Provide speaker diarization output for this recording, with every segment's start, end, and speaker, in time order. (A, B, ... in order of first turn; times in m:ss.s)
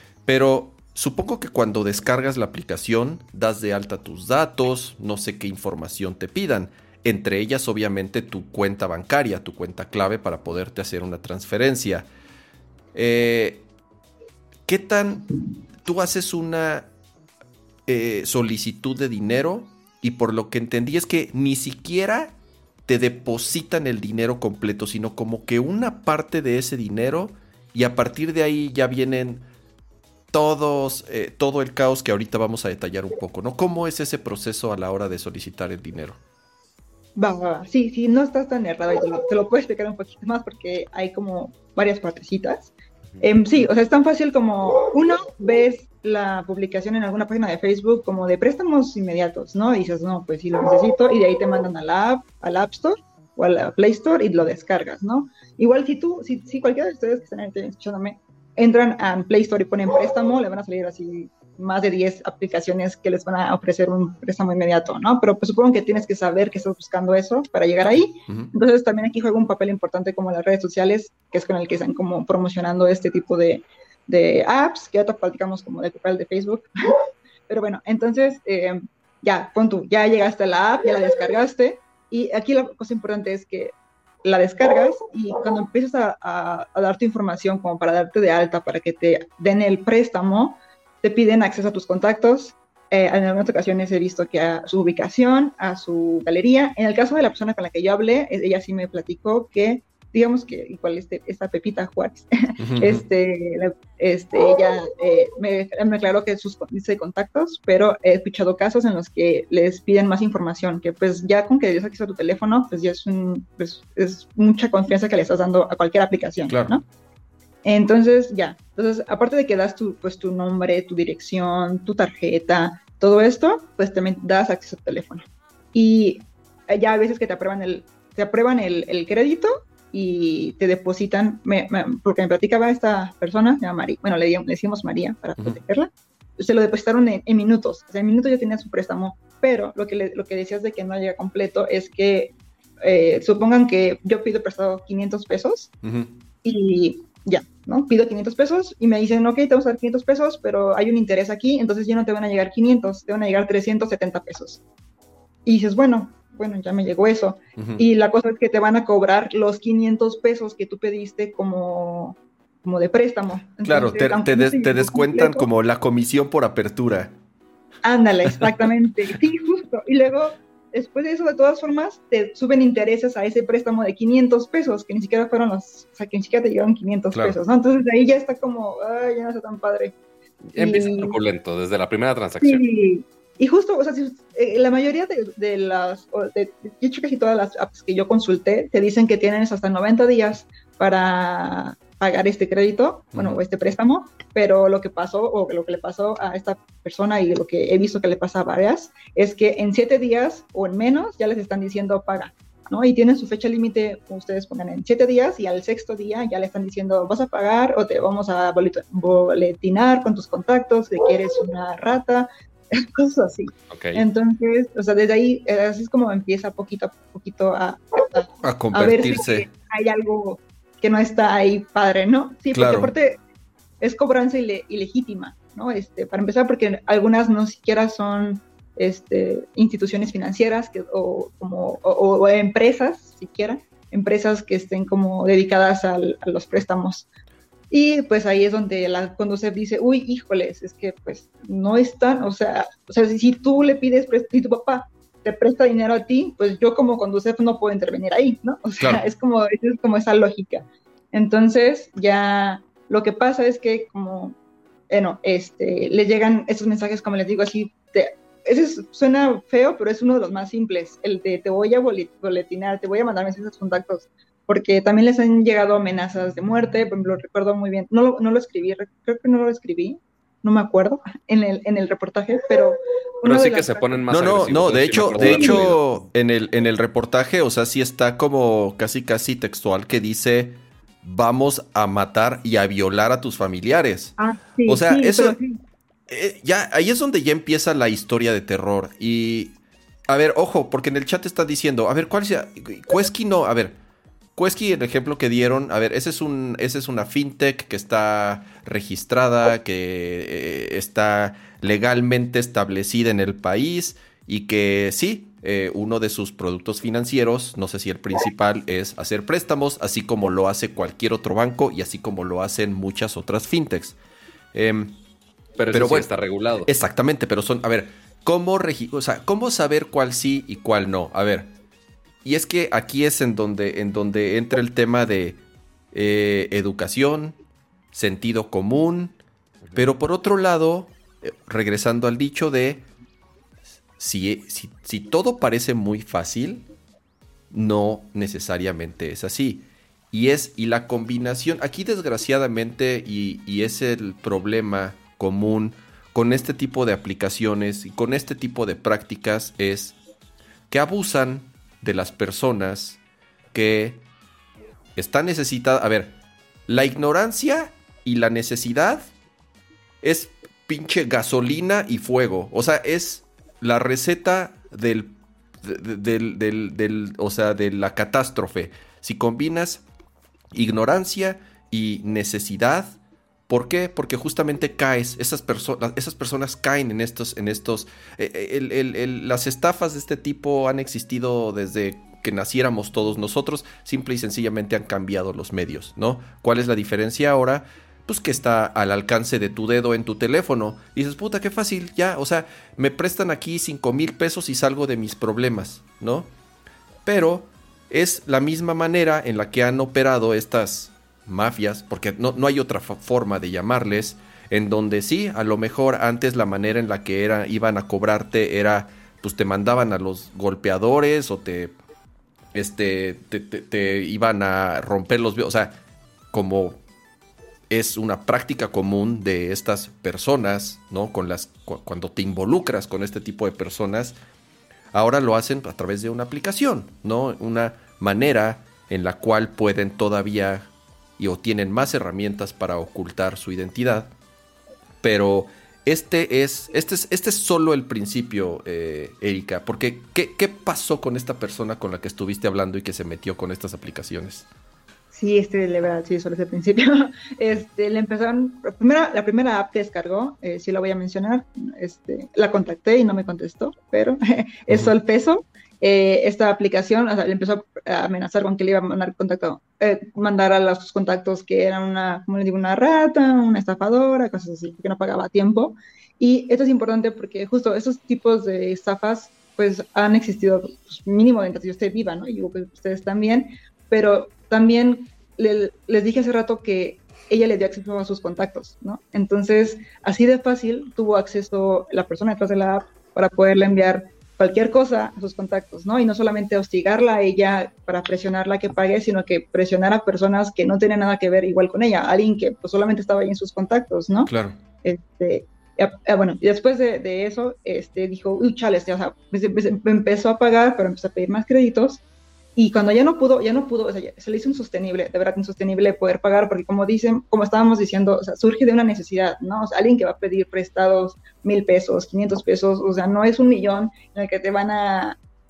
0:00.2-0:12.0 A
0:12.9-0:13.6 A
0:14.6-0:15.3 A
0:15.8-0:16.9 A
0:17.9-0:29.5 A
0:30.3-0:36.2 A
0:37.2-1:16.7 B
1:17.5-1:56.8 B
1:42.6-1:43.0 A
1:56.5-1:56.8 A
1:57.6-2:25.7 B
2:25.8-2:26.2 A
2:26.4-2:34.6 B
2:35.4-2:45.5 B
2:37.6-2:37.8 A
2:43.6-2:47.2 A
2:47.8-2:59.9 B
2:57.1-2:57.4 A
3:00.5-3:02.6 C
3:00.6-3:01.2 B
3:02.4-3:43.2 B
3:13.1-3:13.4 A
3:33.7-3:34.0 C
3:38.4-3:39.5 A
3:42.5-3:42.9 A
3:43.8-3:57.1 B
3:57.7-4:14.4 B
4:08.8-4:09.0 A
4:14.9-4:34.0 B
4:33.2-4:35.8 C
4:34.1-4:44.1 A
4:35.1-4:35.6 B
4:44.2-4:45.6 B
4:44.6-4:45.4 A
4:46.1-4:49.6 A
4:50.1-4:53.8 A
4:54.4-5:14.0 A
5:14.5-5:15.0 A
5:15.6-5:16.7 C
5:15.7-5:16.1 A
5:16.6-5:21.5 A
5:22.2-5:25.4 A
5:25.9-5:27.4 A
5:27.9-5:29.2 A
5:29.8-5:32.8 A
5:34.0-5:36.7 A
5:37.5-5:50.0 A
5:50.7-5:53.0 A
5:53.5-5:54.0 A
5:55.0-5:56.1 A
5:56.7-5:59.0 A
6:00.0-6:09.8 A
6:10.5-6:13.0 A
6:13.5-6:36.3 A
6:37.0-6:51.7 A
6:52.5-6:55.8 A
6:56.3-6:56.8 A
6:57.7-7:04.1 A
7:04.9-7:14.1 A
7:15.0-7:24.5 A
7:25.1-8:14.3 B
8:14.2-8:14.6 A
8:14.8-8:22.0 B
8:22.6-8:35.2 B